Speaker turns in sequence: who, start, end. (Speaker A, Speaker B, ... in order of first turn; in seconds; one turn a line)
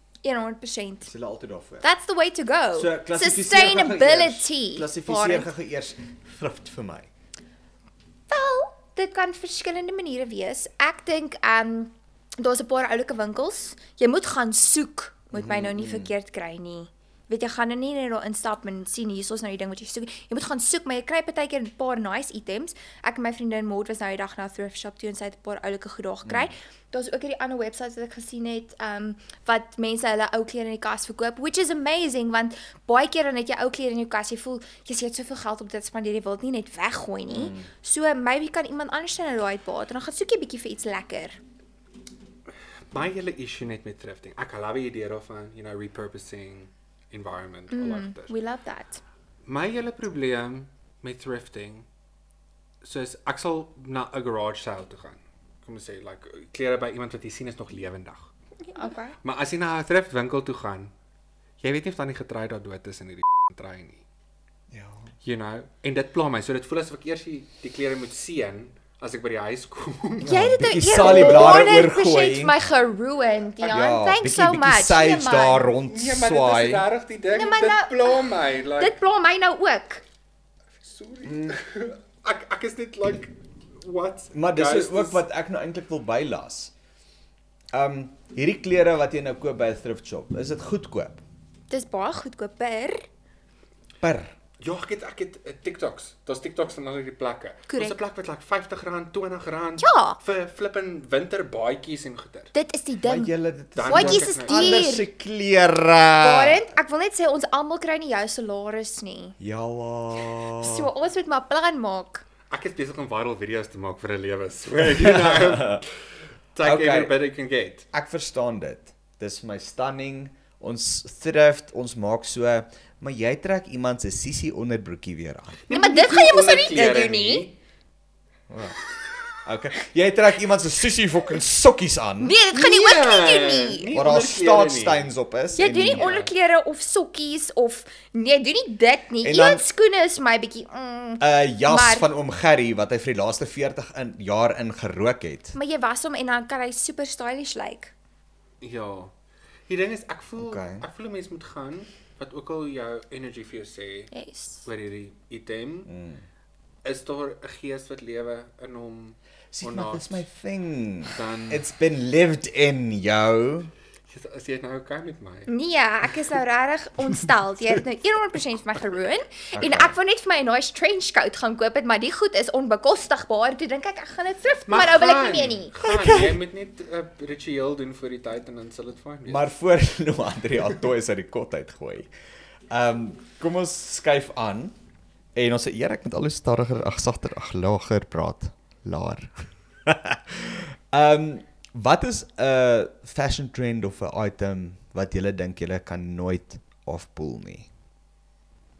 Speaker A: 0.2-1.1
Speaker B: 1.1-1.9
Speaker A: 1.8-5.5
Speaker B: 2.8-7.1
Speaker A: 8.3-41.4
Speaker B: 15.3-16.1
Speaker B: 26.2-26.5
Speaker B: 37.3-37.7
Speaker C: 42.9-48.3
Speaker A: 47.7-49.0
Speaker C: 49.5-51.9
Speaker C: 52.8-58.3
Speaker A: 58.7-59.2
Speaker C: 59.2-60.9
Speaker C: 61.6-64.0
Speaker B: 64.7-65.1
Speaker C: 65.2-70.4
Speaker B: 70.2-72.6
Speaker A: 70.2-75.7
Speaker C: 71.0-71.6
Speaker C: 73.6-73.9
Speaker B: 73.7-76.9
Speaker C: 75.9-79.0
Speaker A: 77.3-80.0
Speaker C: 80.8-85.2
Speaker B: 81.2-81.6
Speaker B: 84.3-86.7
Speaker B: 87.7-91.2
Speaker A: 91.7-93.1
Speaker B: 94.0-94.3
Speaker C: 94.6-102.5
Speaker A: 97.7-98.0
Speaker A: 99.8-100.2
Speaker A: 102.5-103.3
Speaker B: 103.0-106.6
Speaker C: 103.8-104.9
Speaker A: 103.9-105.1
Speaker A: 106.2-109.4
Speaker B: 109.4-110.9
Speaker A: 110.6-112.2
Speaker C: 112.5-115.9
Speaker B: 114.9-115.8
Speaker C: 116.5-117.9
Speaker B: 116.6-117.1
Speaker B: 117.9-125.6
Speaker C: 125.7-127.5
Speaker A: 125.7-127.5
Speaker B: 128.5-128.8
Speaker B: 129.4-132.3
Speaker A: 132.2-133.9
Speaker C: 132.5-135.1
Speaker B: 133.9-136.1
Speaker A: 135.6-142.1
Speaker C: 135.7-136.3
Speaker B: 139.2-139.6
Speaker B: 141.2-145.6
Speaker A: 145.6-147.9
Speaker C: 148.6-149.1
Speaker C: 149.7-154.1
Speaker B: 150.4-150.9
Speaker A: 154.1-154.7
Speaker C: 154.6-155.9
Speaker B: 155.9-156.2
Speaker C: 156.8-160.2
Speaker B: 159.5-163.7
Speaker C: 161.1-161.6
Speaker C: 164.1-165.5
Speaker A: 165.5-175.7
Speaker B: 169.5-169.9
Speaker C: 174.7-179.5
Speaker B: 175.8-176.3
Speaker B: 179.3-182.1
Speaker B: 182.7-184.8
Speaker B: 185.4-197.7